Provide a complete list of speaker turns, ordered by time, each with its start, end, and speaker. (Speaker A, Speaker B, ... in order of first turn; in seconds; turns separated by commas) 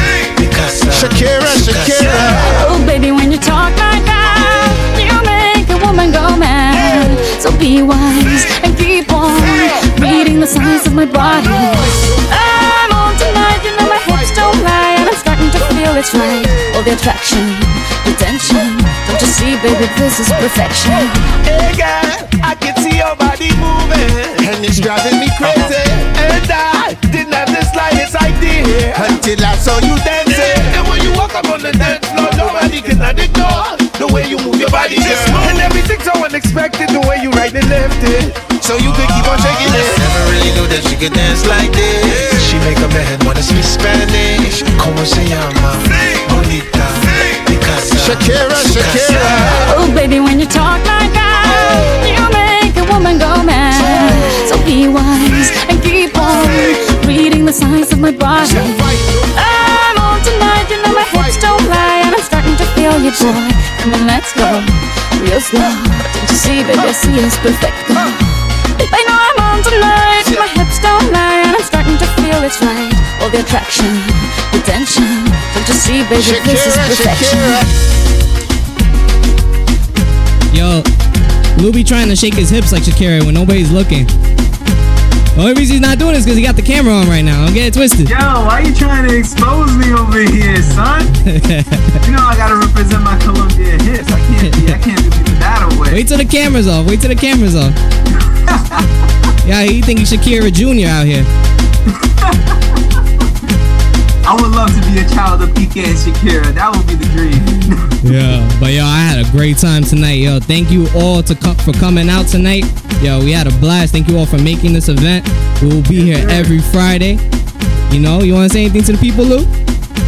Speaker A: 0.4-1.1, Speaker B: 0.9-2.5, Speaker C: 2.5-21.2, Speaker B: 21.4-40.1, Speaker A: 42.4-43.2, Speaker A: 44.8-45.8, Speaker A: 46.4-46.8, Speaker A: 47.5-49.5, Speaker B: 47.9-49.7, Speaker C: 49.6-68.2, Speaker C: 68.8-77.6, Speaker B: 76.2-77.7, Speaker D: 80.5-80.8, Speaker D: 81.5-84.1, Speaker D: 85.3-88.1, Speaker E: 88.0-91.1, Speaker D: 91.2-92.0, Speaker E: 92.0-96.0, Speaker D: 94.4-94.8, Speaker D: 95.9-97.8, Speaker E: 98.3-98.9, Speaker D: 99.4-101.3, Speaker E: 101.9-102.8, Speaker E: 104.2-107.9, Speaker D: 108.0-117.2, Speaker E: 115.9-116.5, Speaker D: 117.9-119.5